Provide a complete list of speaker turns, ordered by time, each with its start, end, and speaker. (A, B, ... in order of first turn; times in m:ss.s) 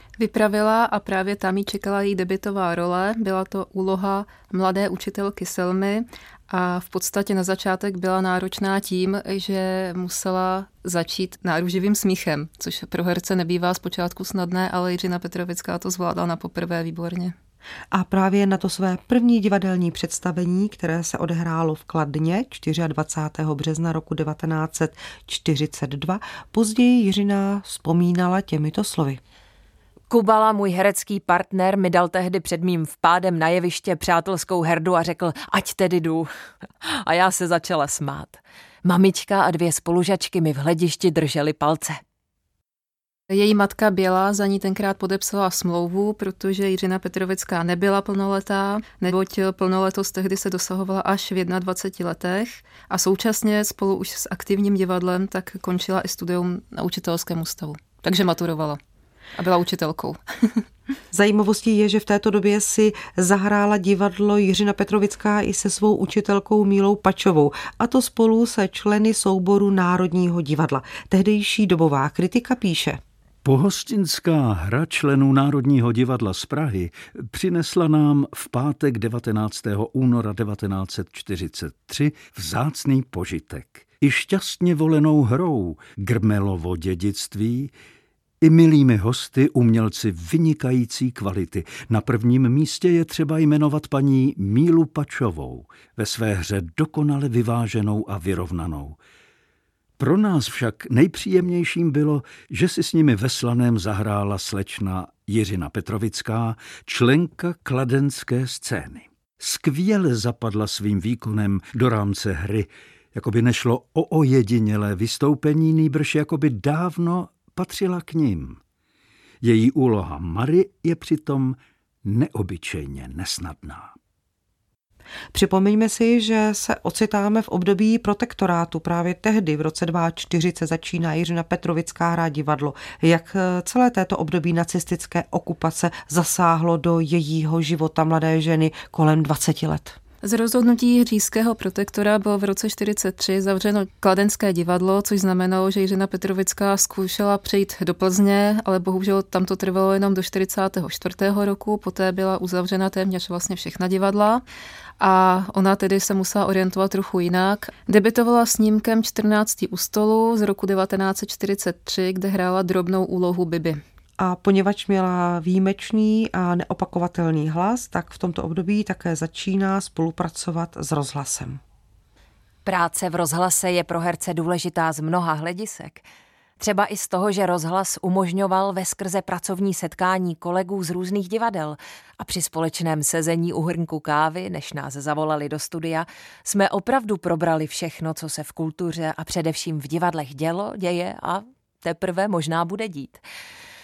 0:00.2-0:17.4 A
0:17.9-0:29.2 B
0:30.1-0:36.3 C
0:36.8-0:42.0 C
0:43.3-0:58.8 A
0:59.4-1:00.6 A
1:01.1-1:13.0 B
1:13.4-1:27.7 D
1:28.4-1:39.0 D
1:40.0-1:58.6 D
1:59.4-2:03.9 D
2:05.3-2:20.0 B
2:20.2-2:34.4 A
2:35.0-2:43.8 A
2:44.2-2:51.6 B
2:52.6-2:56.1 C
2:56.6-3:13.2 C